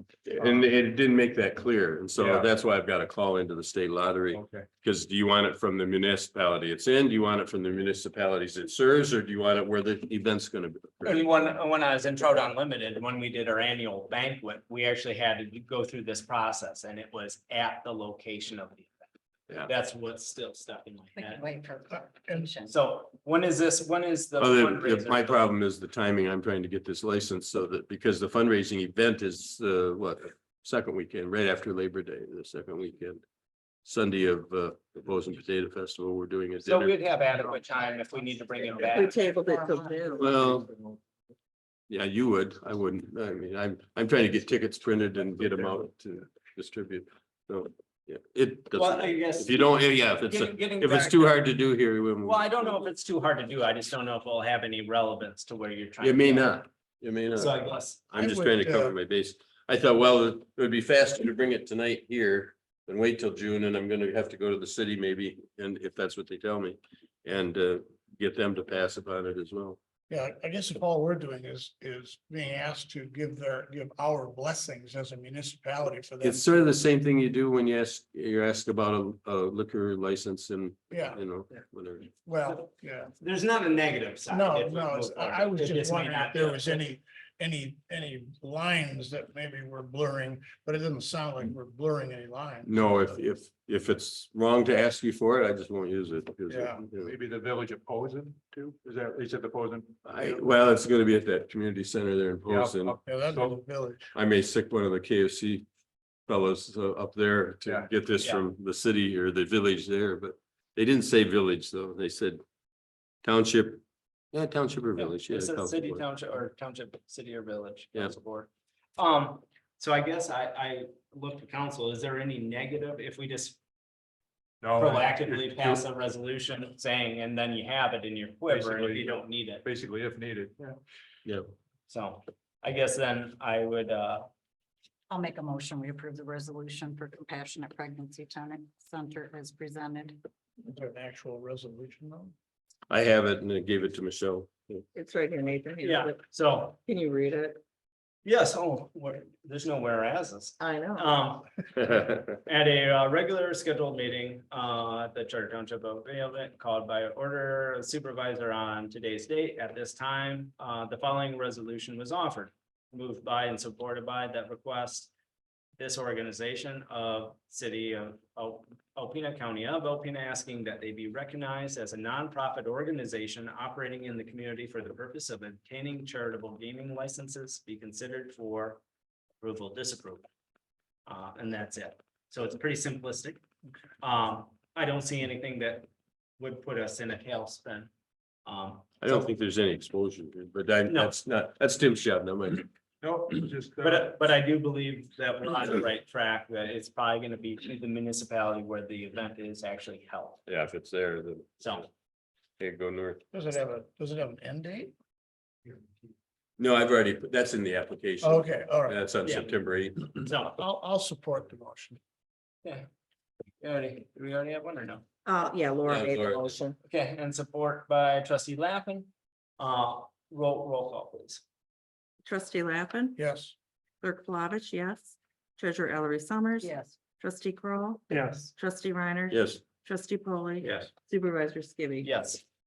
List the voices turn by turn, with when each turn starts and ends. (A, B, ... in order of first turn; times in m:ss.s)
0:00.3-0:11.4 A
0:00.4-0:00.7 B
0:02.2-0:02.5 B
0:04.3-0:04.7 B
0:11.0-0:19.0 C
0:19.6-0:21.4 C
0:21.1-0:22.7 D
0:21.9-0:22.5 E
0:22.6-0:25.5 C
0:24.4-0:33.2 A
0:33.8-0:36.9 A
0:36.6-0:39.2 C
0:37.4-0:40.3 D
0:38.8-0:40.2 F
0:40.2-0:40.7 A
0:41.9-0:52.5 A
0:48.7-0:51.4 C
0:52.2-0:56.6 C
0:56.0-1:09.8 A
0:57.3-0:58.0 C
0:58.2-0:59.0 E
1:10.1-1:16.4 E
1:16.2-1:22.1 A
1:20.9-1:21.2 E
1:22.2-1:23.1 E
1:22.4-1:26.8 C
1:24.3-1:33.0 E
1:32.6-1:37.1 A
1:36.5-1:36.8 E
1:37.0-1:40.0 B
1:40.0-1:42.9 A
1:42.4-1:43.6 B
1:43.0-1:44.1 E
1:44.1-1:45.6 A
1:46.3-1:52.4 A
1:48.2-1:48.5 C
1:53.2-1:53.8 A
1:54.3-1:56.0 A
1:55.0-2:03.6 C
2:04.6-2:05.8 B
2:04.8-2:09.6 C
2:08.5-2:10.8 B
2:11.9-2:14.3 C
2:15.1-2:20.2 D
2:20.6-2:22.3 E
2:22.9-2:24.8 A
2:24.9-2:26.2 F
2:25.8-2:26.8 C
2:26.8-2:27.6 F
2:28.2-2:45.1 C
2:30.6-2:31.0 F
2:45.8-2:58.8 C
2:59.4-3:00.2 C
3:01.1-3:03.4 C
3:04.0-3:07.9 C
3:08.4-3:09.2 C
3:09.0-3:12.7 A
3:13.0-3:14.2 B
3:13.8-3:20.4 C
3:20.5-3:21.8 A
3:21.6-3:21.9 C
3:22.6-3:23.2 A
3:23.3-3:24.9 E
3:26.6-3:30.2 A
3:28.2-3:29.0 E
3:29.2-3:29.5 C
3:30.2-3:30.6 C
3:30.6-3:32.0 E
3:33.6-3:35.0 C
3:35.2-3:36.8 F
3:35.8-3:36.6 A
3:36.8-3:41.4 C
3:42.2-3:43.2 F
3:43.2-3:43.5 E
3:44.0-3:52.1 F
3:46.6-3:47.0 D
3:48.1-3:48.5 C
3:49.3-3:49.6 A
3:50.6-3:50.9 C
3:52.0-3:52.4 C